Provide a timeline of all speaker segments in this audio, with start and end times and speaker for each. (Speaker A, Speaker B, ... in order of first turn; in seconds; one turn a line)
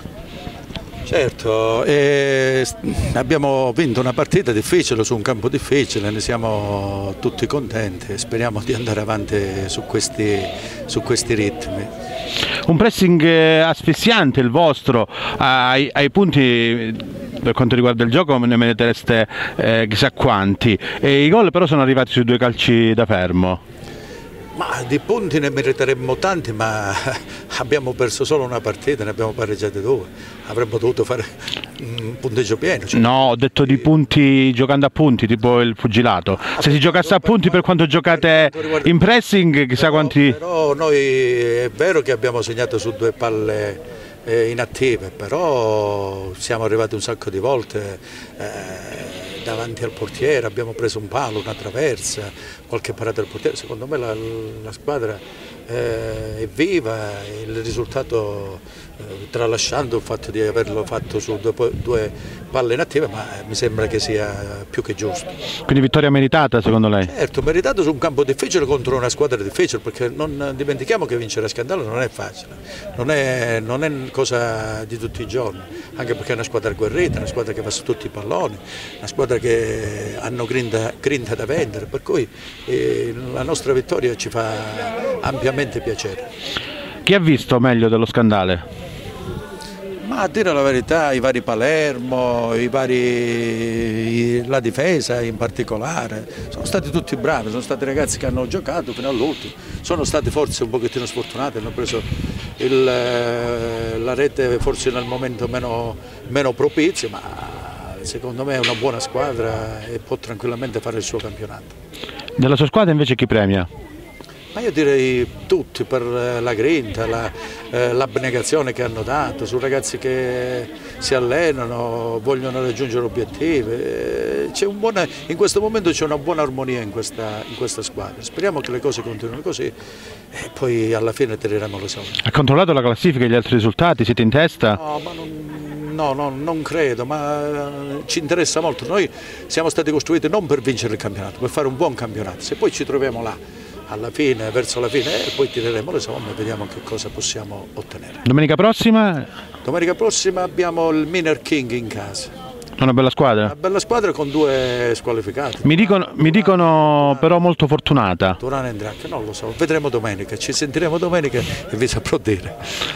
Speaker A: 1.1-11.9
Speaker B: 12.7-23.6
Speaker A: 24.6-33.9
Speaker B: 32.9-40.4
Speaker A: 36.5-39.0
Speaker A: 39.8-65.3
Speaker B: 65.7-67.1
Speaker A: 67.0-86.3
Speaker B: 87.1-88.7
Speaker A: 90.0-102.1
Speaker A: 102.6-111.7
Speaker B: 112.4-113.7
Speaker A: 114.5-129.7
Speaker A: 130.3-132.2
Speaker B: 132.2-134.8
Speaker A: 134.8-148.2
Speaker B: 148.2-149.3
Speaker A: 149.6-152.3
Speaker B: 152.8-153.5
Speaker A: 153.4-157.4
Speaker B: 155.7-158.4
Speaker A: 158.4-162.6